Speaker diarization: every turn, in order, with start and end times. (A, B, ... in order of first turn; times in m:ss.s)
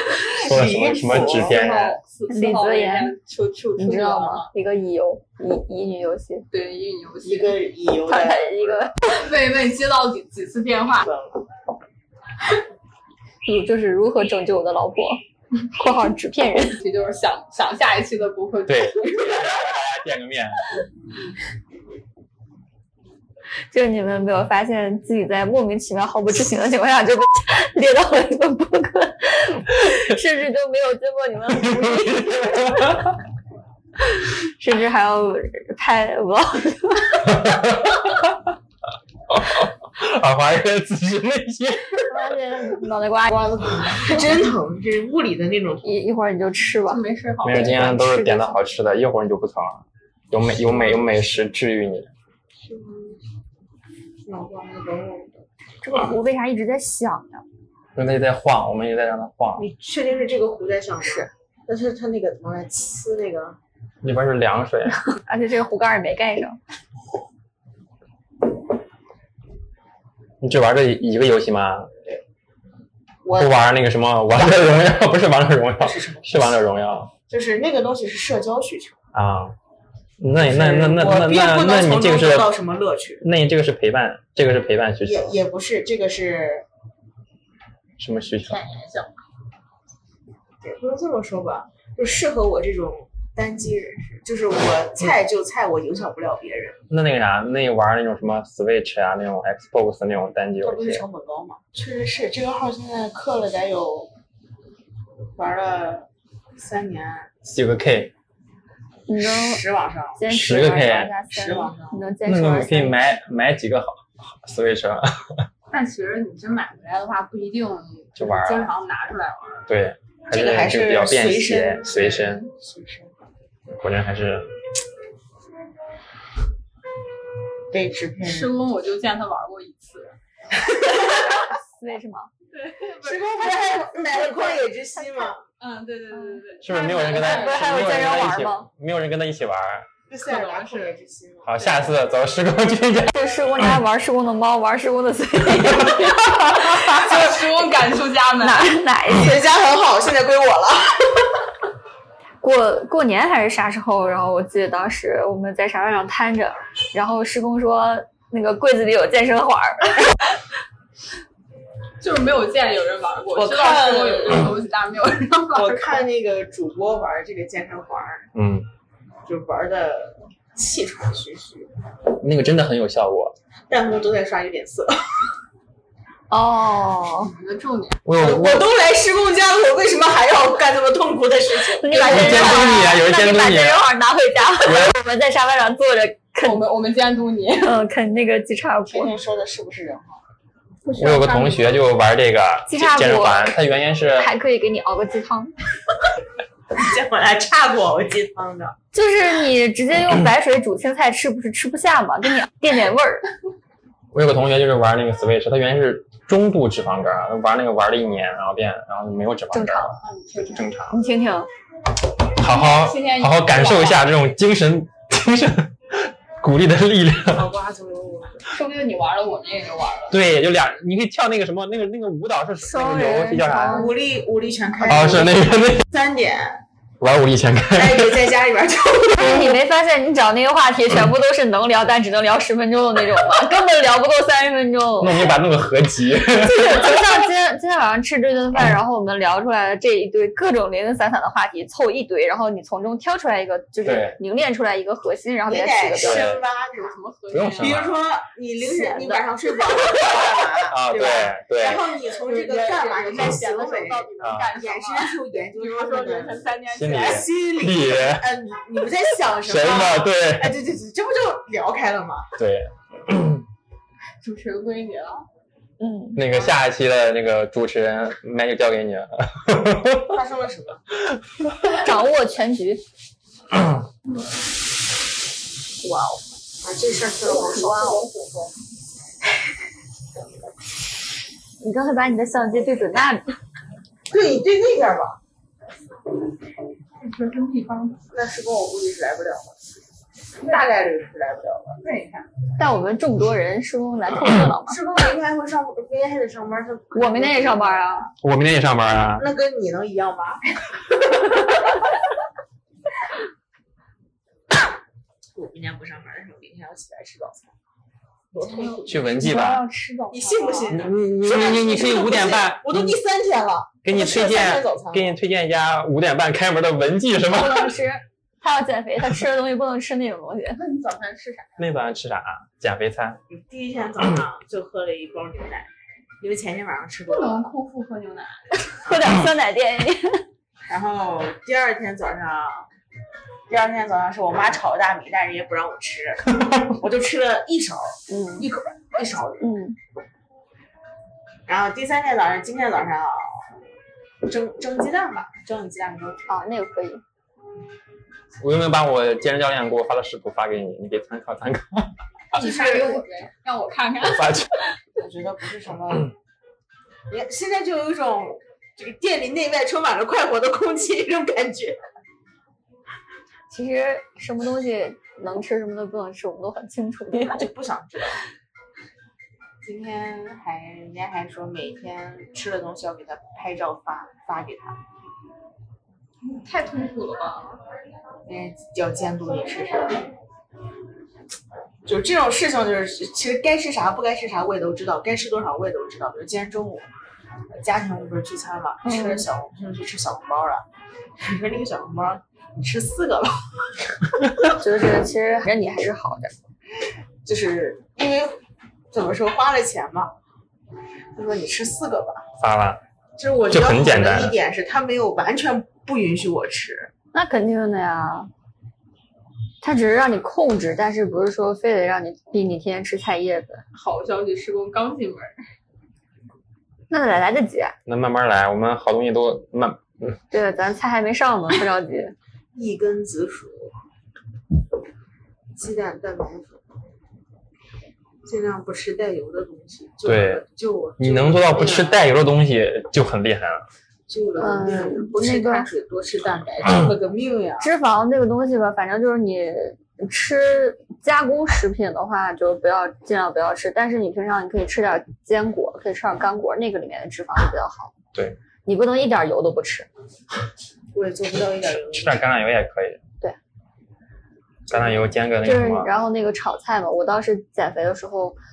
0:00.2-0:01.6 A
0:00.4-0:02.0 B
0:01.4-0:04.5 C
0:02.3-0:03.1 D
0:03.8-0:06.5 D
0:06.5-0:07.6 C
0:07.2-0:08.9 A
0:08.1-0:09.0 D
0:09.1-0:11.1 C
0:11.0-0:11.4 A
0:13.4-0:15.2 D
0:15.7-0:16.8 D
0:16.8-0:19.6 C
0:18.7-0:20.6 B
0:23.7-0:32.6 D
0:31.6-0:33.0 B
0:34.6-0:37.4 D
0:37.5-0:37.9 B
0:39.3-0:42.1 B
0:42.1-0:43.4 D
0:43.3-0:45.9 A
0:45.8-0:47.0 D
0:46.9-0:47.9 C
0:47.4-0:52.1 B
0:47.5-0:48.6 D
0:52.6-0:53.2 A
0:54.2-0:55.4 A
0:55.8-0:57.4 D
0:58.0-0:59.7 B
0:59.6-1:03.6 A
1:01.0-1:01.3 D
1:04.0-1:05.1 B
1:05.2-1:06.6 D
1:10.4-1:11.9 B
1:13.2-1:13.7 A
1:13.4-1:17.1 B
1:14.3-1:14.8 A
1:15.8-1:16.6 A
1:17.3-1:19.0 A
1:19.1-1:19.6 B
1:20.2-1:22.5 B
1:20.4-1:23.2 A
1:23.2-1:25.3 B
1:25.0-1:26.6 A
1:28.0-1:28.6 B
1:28.4-1:29.2 C
1:30.6-1:36.8 A
1:36.9-1:41.0 B
1:40.6-1:44.1 A
1:45.4-1:47.3 A
1:47.4-1:48.1 B
1:49.1-1:49.6 D
1:49.2-1:50.2 A
1:50.2-1:53.0 D
1:50.3-1:51.2 B
1:51.3-1:52.1 A
1:52.2-1:55.4 B
1:55.7-1:59.7 C
1:58.2-1:58.7 B
1:59.7-2:02.5 B
2:00.3-2:03.1 A
2:03.7-2:04.5 B
2:07.7-2:08.6 A
2:08.2-2:10.1 C
2:11.0-2:12.3 D
2:12.5-2:13.8 C
2:13.0-2:15.4 A
2:14.1-2:14.5 D
2:15.6-2:17.8 C
2:16.1-2:18.7 D
2:16.6-2:19.9 B
2:20.1-2:21.6 A
2:20.2-2:21.0 C
2:21.4-2:23.2 B
2:23.1-2:27.4 D
2:26.6-2:28.8 C
2:28.4-2:29.4 D
2:29.1-2:31.1 A
2:32.4-2:40.2 D
2:42.0-2:46.1 C
2:43.4-2:44.6 A
2:45.5-2:48.3 A
2:48.4-2:48.7 B
2:49.2-2:51.7 A
2:52.2-2:53.4 B
2:53.7-2:55.0 A
2:56.3-2:57.3 D
2:57.2-2:58.0 C
2:58.0-2:58.7 B
2:58.2-3:03.0 A
3:01.8-3:06.6 D
3:01.9-3:03.9 B
3:06.4-3:07.8 C
3:07.6-3:09.1 D
3:08.9-3:10.2 A
3:10.9-3:11.9 C
3:11.0-3:14.3 B
3:12.7-3:13.6 D
3:14.1-3:15.5 D
3:16.8-3:18.8 A
3:18.9-3:23.3 D
3:24.1-3:31.0 B
3:29.5-3:30.0 D
3:30.0-3:30.7 C
3:30.9-3:31.5 D
3:32.4-3:37.5 B
3:32.4-3:34.1 C
3:37.3-3:38.4 A
3:38.5-3:40.1 C
3:40.1-3:43.9 B
3:42.6-3:43.9 D
3:43.6-3:46.6 A
3:44.9-3:45.8 B
3:47.0-3:48.2 B
3:47.7-3:49.5 A
3:49.2-3:55.3 D
3:55.0-3:57.1 B
3:56.3-4:06.3 D
4:03.8-4:04.2 B
4:05.5-4:07.0 A
4:06.0-4:06.4 B
4:06.7-4:07.8 C
4:07.3-4:08.0 B
4:07.6-4:22.3 A
4:08.6-4:09.2 D
4:10.6-4:11.8 B
4:12.1-4:17.2 C
4:14.2-4:14.5 B
4:16.7-4:18.3 B
4:19.4-4:20.6 B
4:22.4-4:23.4 B
4:24.2-4:25.2 C
4:25.8-4:26.2 D
4:26.2-4:30.1 B
4:30.1-4:30.9 A
4:31.8-4:32.8 D
4:35.8-4:36.2 D
4:36.6-4:38.1 A
4:37.5-4:38.0 D
4:41.6-4:43.3 D
4:44.1-4:45.2 A
4:47.0-4:48.0 C
4:48.1-4:49.7 A
4:50.4-4:51.8 A
4:51.8-4:52.3 C
4:52.6-4:54.8 D
4:54.6-4:58.1 A
4:57.0-4:58.1 D
4:58.2-4:59.3 B
4:59.2-5:00.4 A
5:05.4-5:07.5 A
5:08.3-5:09.3 A
5:08.5-5:08.8 C
5:08.9-5:09.7 B
5:09.2-5:10.2 D
5:09.6-5:10.7 C
5:10.1-5:15.2 A
5:10.7-5:13.0 B
5:13.8-5:17.8 B
5:17.3-5:20.6 D
5:20.6-5:21.6 C
5:21.6-5:23.2 B
5:23.3-5:25.7 A
5:26.2-5:27.5 A
5:27.1-5:28.4 C
5:28.8-5:30.2 D
5:30.7-5:32.6 A
5:33.5-5:39.4 A
5:38.1-5:38.5 D
5:39.4-5:39.8 D
5:41.5-5:43.5 A
5:44.2-5:46.2 A
5:46.3-5:47.0 D
5:48.4-5:51.9 B
5:52.4-5:54.6 C
5:52.4-5:52.9 A
5:54.0-5:54.5 B
5:55.0-5:56.1 A
5:57.1-6:01.8 A
6:03.5-6:07.4 D
6:07.1-6:08.2 A
6:09.6-6:14.8 A
6:16.2-6:17.6 C
6:18.2-6:20.1 A
6:21.8-6:26.9 A
6:27.5-6:30.6 A
6:28.8-6:29.3 D
6:31.2-6:33.4 A
6:34.6-6:36.3 D
6:37.2-6:38.4 A
6:38.9-6:40.1 A
6:41.1-6:42.2 A
6:42.4-6:42.8 B
6:43.2-6:46.9 A
6:43.5-6:44.4 B
6:47.1-6:48.3 D
6:49.6-6:53.6 D
6:53.7-6:55.4 C
6:56.9-6:57.8 D
6:57.9-7:00.2 B
7:00.3-7:02.1 D
7:02.5-7:03.7 A
7:05.6-7:06.6 A
7:08.2-7:12.1 A
7:10.0-7:10.4 B
7:11.0-7:13.6 B
7:14.1-7:17.7 A
7:14.4-7:15.7 D
7:17.6-7:28.0 D
7:28.6-7:29.9 D
7:30.9-7:32.3 A
7:31.7-7:33.0 B
7:34.7-7:35.9 B
7:35.4-7:38.4 D